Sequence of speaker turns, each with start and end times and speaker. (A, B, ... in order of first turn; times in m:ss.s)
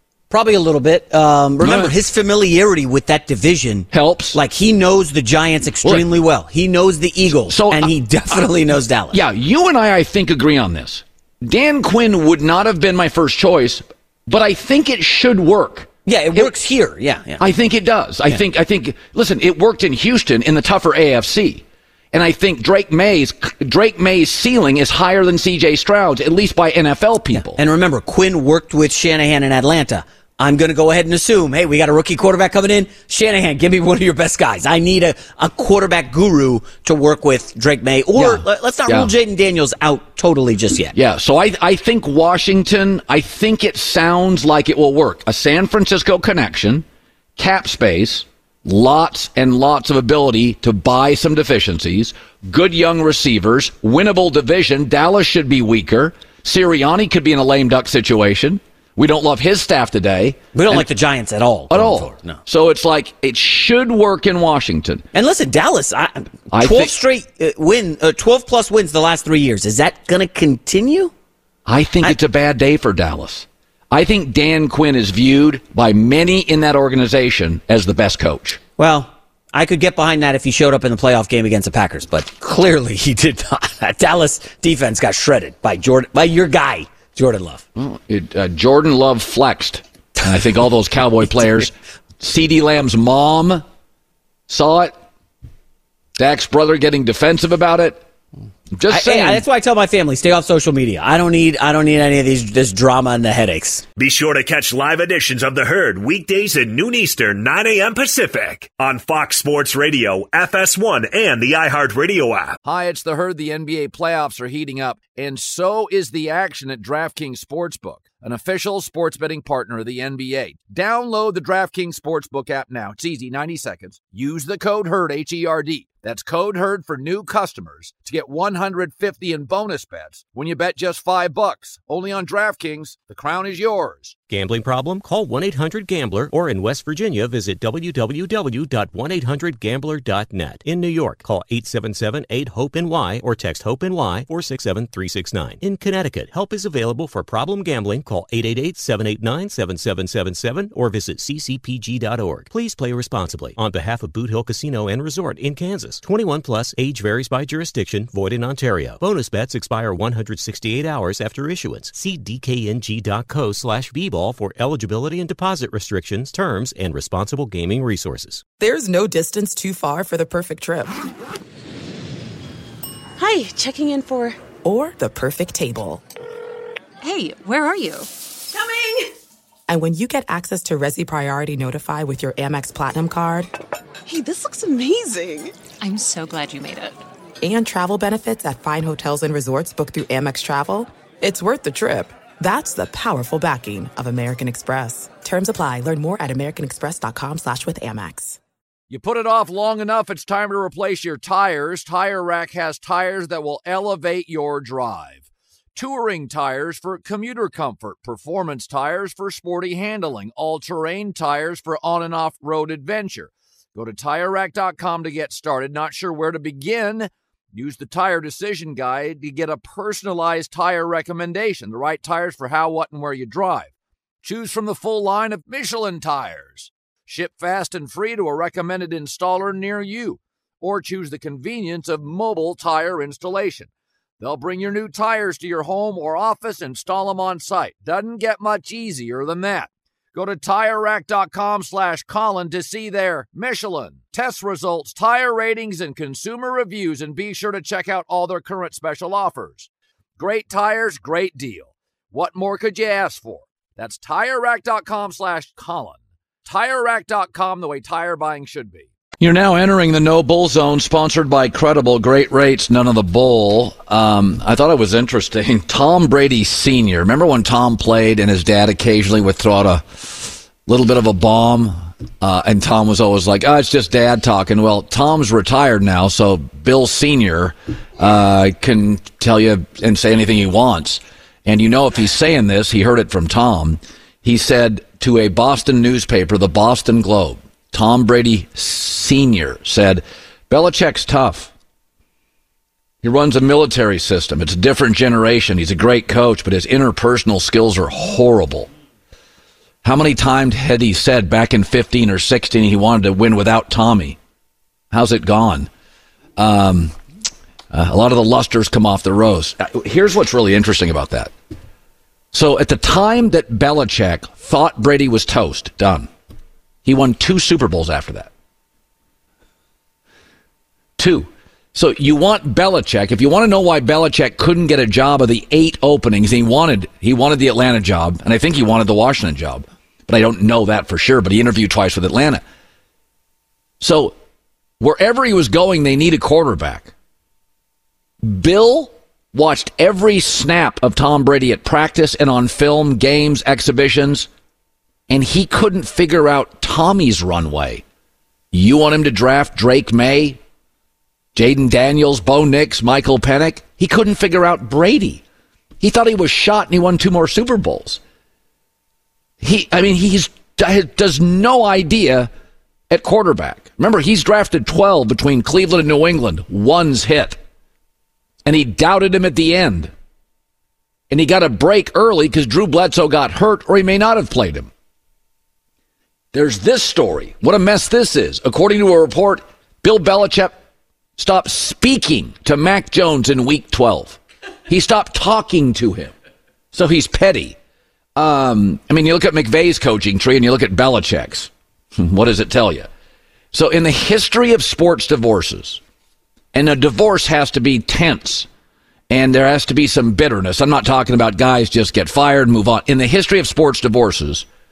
0:00.3-0:09.2 A
0:01.6-0:02.0 B
0:03.9-0:04.4 B
0:07.5-0:08.5 B
0:09.1-0:16.6 B
0:16.1-0:17.4 A
0:17.4-0:27.6 B
0:27.4-0:40.9 A
0:38.1-0:39.1 B
0:40.9-0:46.8 B
0:47.4-1:00.9 B
1:00.5-1:02.4 A
1:01.7-1:05.1 B
1:05.1-1:11.1 A
1:06.5-1:07.0 B
1:11.7-1:18.6 B
1:18.8-1:27.6 A
1:27.8-1:33.6 B
1:34.5-1:35.0 B
1:36.2-1:38.0 B
1:38.7-1:39.4 B
1:38.9-1:43.8 A
1:44.0-1:52.6 C
1:52.6-2:14.2 B
2:14.3-2:48.4 D
2:48.6-2:51.0 E
2:53.2-2:54.4 F
2:54.6-2:56.0 E
2:57.0-2:58.1 F
2:59.7-3:03.5 E
3:04.4-3:05.2 E
3:05.8-3:07.0 F
3:07.4-3:18.4 E
3:18.9-3:25.2 B
3:25.8-3:43.7 B
3:44.2-3:53.7 B
3:54.2-4:51.5 B
4:53.0-4:58.7 B
4:59.8-5:04.2 B
5:04.9-5:05.7 B
5:06.4-5:07.0 B
5:07.7-5:11.3 B
5:12.3-5:16.1 B
5:16.8-5:18.3 B
5:21.0-5:32.4 B
5:33.8-5:34.2 B
5:34.8-5:36.9 B
5:38.2-5:44.3 B
5:45.1-5:47.8 B
5:48.5-5:50.4 B
5:51.4-5:55.2 B
5:55.8-5:58.0 B
5:59.4-6:02.3 B
6:02.9-6:07.4 B
6:08.4-6:09.9 B
6:11.1-6:14.7 B
6:16.3-6:20.6 B
6:21.2-6:26.1 B
6:26.7-6:27.6 B
6:28.2-6:32.9 B
6:33.5-6:35.8 B
6:36.5-6:38.5 B
6:39.1-6:44.5 B